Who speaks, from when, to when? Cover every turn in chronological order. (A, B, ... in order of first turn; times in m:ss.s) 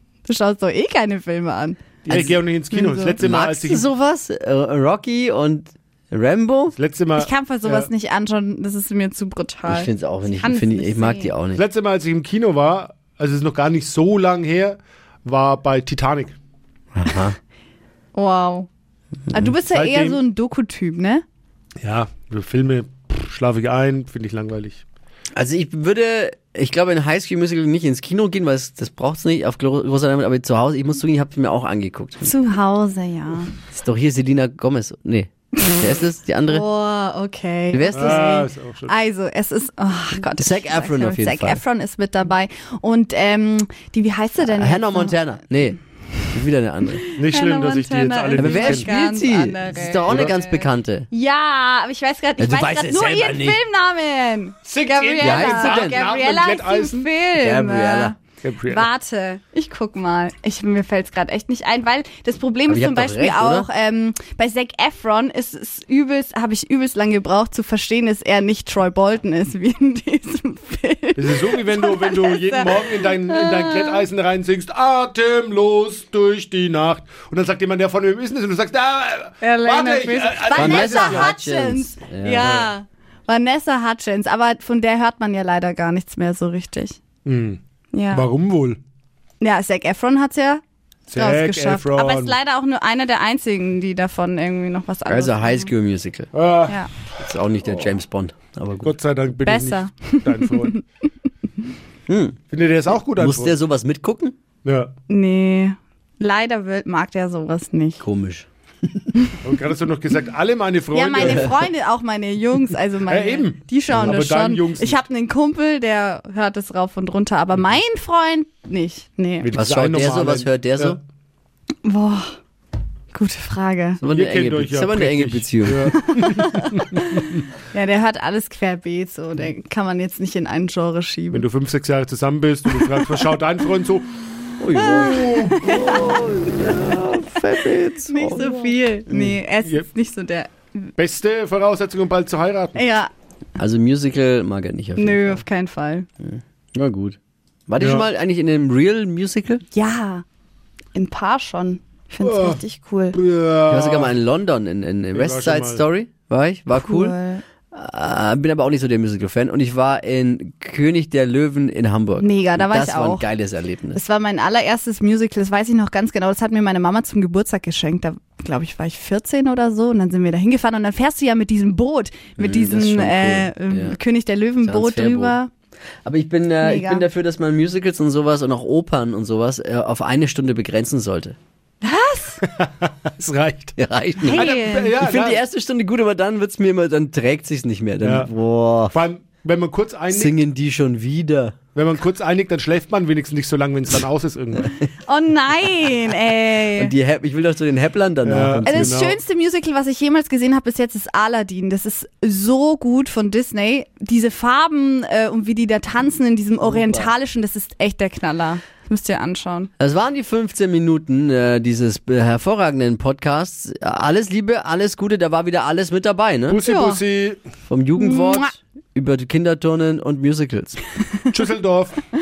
0:00.3-0:01.8 A
0:02.0-0:03.9 B
0:02.1-0:02.4 C
0:02.7-0:03.2 A
0:03.2-0:06.8 C
0:06.7-0:07.9 B
0:07.2-0:11.3 A
0:09.7-0:11.6 C
0:11.6-0:16.4 B
0:16.9-0:17.4 C
0:18.1-0:18.7 A
0:19.3-0:21.2 A
0:19.7-0:20.2 B
0:21.8-0:24.8 B
0:25.4-0:32.3 C
0:32.2-0:33.6 A
0:33.6-0:36.6 C
0:36.5-0:45.2 A
0:37.7-0:38.4 C
0:37.9-0:38.9 B
0:40.1-0:41.6 C
0:44.4-0:47.0 C
0:47.0-1:14.0 A
0:47.2-0:48.9 B
0:48.4-0:51.1 C
0:50.1-0:50.3 B
0:52.4-0:53.6 C
0:54.6-0:57.1 B
0:55.2-0:56.0 C
0:57.4-0:58.1 C
0:58.4-0:58.9 B
1:02.7-1:03.7 C
1:11.2-1:21.4 B
1:19.4-1:27.0 A
1:20.5-1:22.5 C
1:22.4-1:22.7 B
1:27.2-1:28.8 B
1:27.9-1:28.3 A
1:29.4-1:30.6 A
1:31.1-1:32.4 B
1:31.2-1:35.7 A
1:35.1-1:36.3 C
1:36.3-1:36.8 B
1:37.2-1:39.0 C
1:38.8-1:40.8 B
1:39.4-1:40.8 A
1:42.1-1:42.4 C
1:42.5-1:43.6 B
1:43.2-1:44.4 C
1:44.6-1:44.9 B
1:45.1-1:48.0 A
1:48.0-1:48.5 C
1:49.4-1:51.7 B
1:50.9-1:59.5 A
1:51.2-1:51.5 C
1:53.1-1:55.0 B
1:59.4-2:01.0 B
1:59.5-2:01.0 C
2:01.8-2:02.4 A
2:03.1-2:04.0 A
2:04.0-2:06.0 C
2:04.1-2:07.4 B
2:06.0-2:11.4 A
2:11.3-2:14.1 B
2:14.6-2:19.4 C
2:14.8-2:16.2 A
2:15.0-2:15.8 B
2:18.1-2:20.9 A
2:21.0-2:22.8 B
2:22.8-2:23.1 A
2:23.6-2:25.4 C
2:25.0-2:26.1 A
2:26.2-2:29.6 C
2:27.8-2:28.1 B
2:29.7-2:30.2 A
2:30.9-2:33.2 A
2:32.2-2:32.6 B
2:33.1-2:34.2 B
2:33.7-2:37.2 C
2:35.1-2:35.8 B
2:36.7-2:37.4 A
2:37.7-2:44.0 C
2:42.2-2:43.3 A
2:43.9-2:55.5 A
2:52.4-2:54.0 C
2:54.6-2:55.4 C
2:56.0-3:01.4 C
2:56.6-2:57.0 A
3:01.8-3:02.4 A
3:02.4-3:05.4 B
3:03.8-3:09.0 C
3:04.2-3:05.0 A
3:08.0-3:08.3 B
3:08.9-3:10.4 B
3:10.1-3:11.6 C
3:11.8-3:14.7 B
3:15.1-3:16.9 A
3:16.8-3:19.0 C
3:18.2-3:19.2 B
3:18.6-3:29.7 A
3:26.6-3:27.1 C
3:29.8-3:36.6 C
3:36.5-3:37.4 B
3:36.6-3:37.0 A
3:37.7-3:40.8 C
3:38.0-3:38.5 A
3:41.3-3:42.0 B